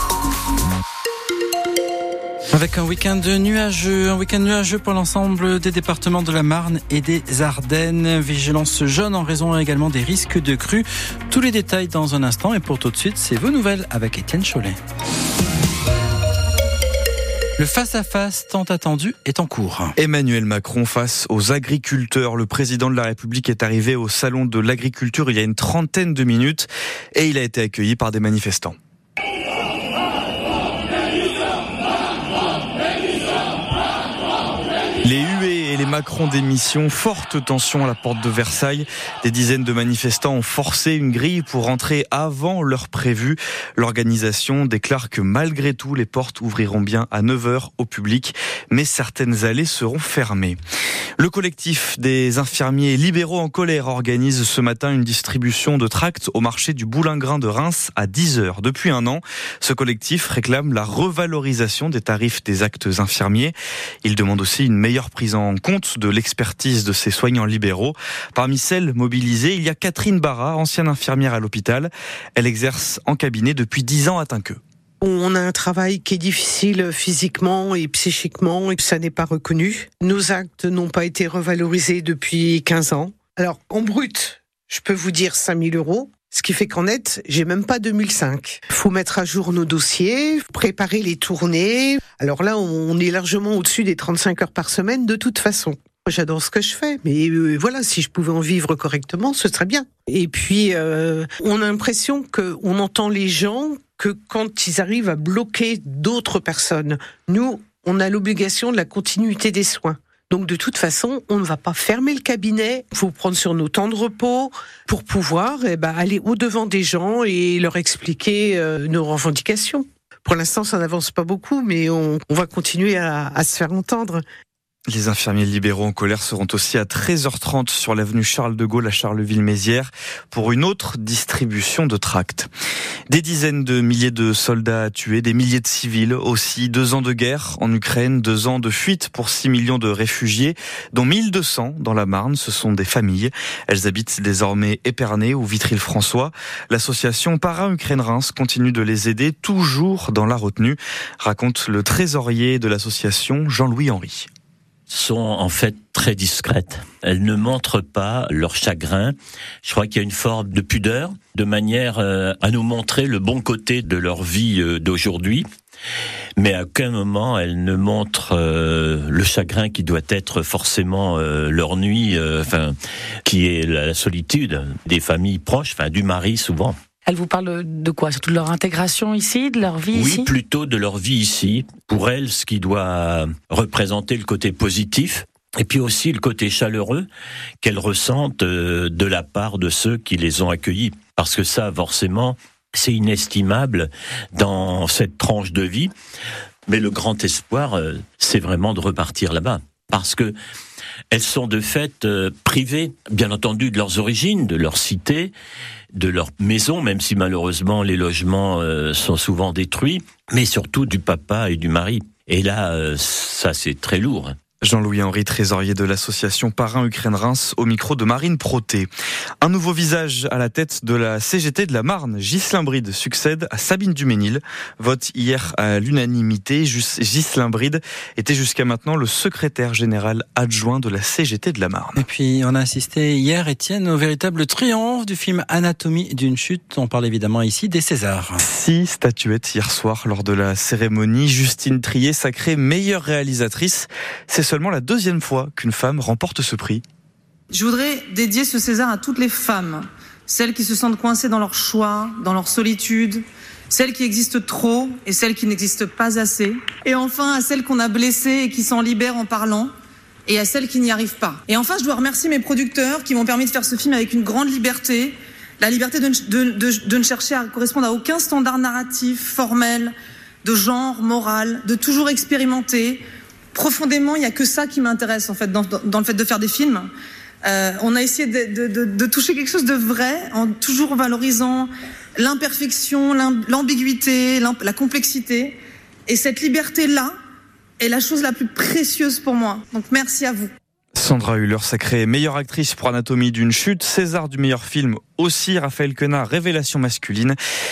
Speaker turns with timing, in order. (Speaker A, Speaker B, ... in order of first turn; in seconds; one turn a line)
Speaker A: 2.5-14.8
Speaker A: 17.6-19.9
Speaker B: 20.0-28.8
Speaker B: 35.0-50.6
Speaker B: 51.2-74.6
Speaker C: 75.0-124.2
Speaker B: 124.9-132.5
Speaker B: 133.1-154.3
Speaker D: 154.9-165.4
Speaker D: 166.4-176.8
Speaker E: 177.1-180.3
Speaker D: 179.9-187.1
Speaker D: 187.6-195.9
Speaker D: 196.7-200.3
Speaker D: 201.1-205.3
Speaker D: 205.9-214.3
Speaker B: 214.6-218.9
Speaker B: 219.4-232.0
Speaker A: 232.0-238.4
Speaker B: 238.4-246.8
Speaker F: 247.5-259.7
Speaker F: 260.3-269.9
Speaker F: 270.4-273.0
Speaker F: 273.5-276.9
Speaker F: 277.4-287.1
Speaker F: 287.8-290.5
Speaker B: 290.9-297.4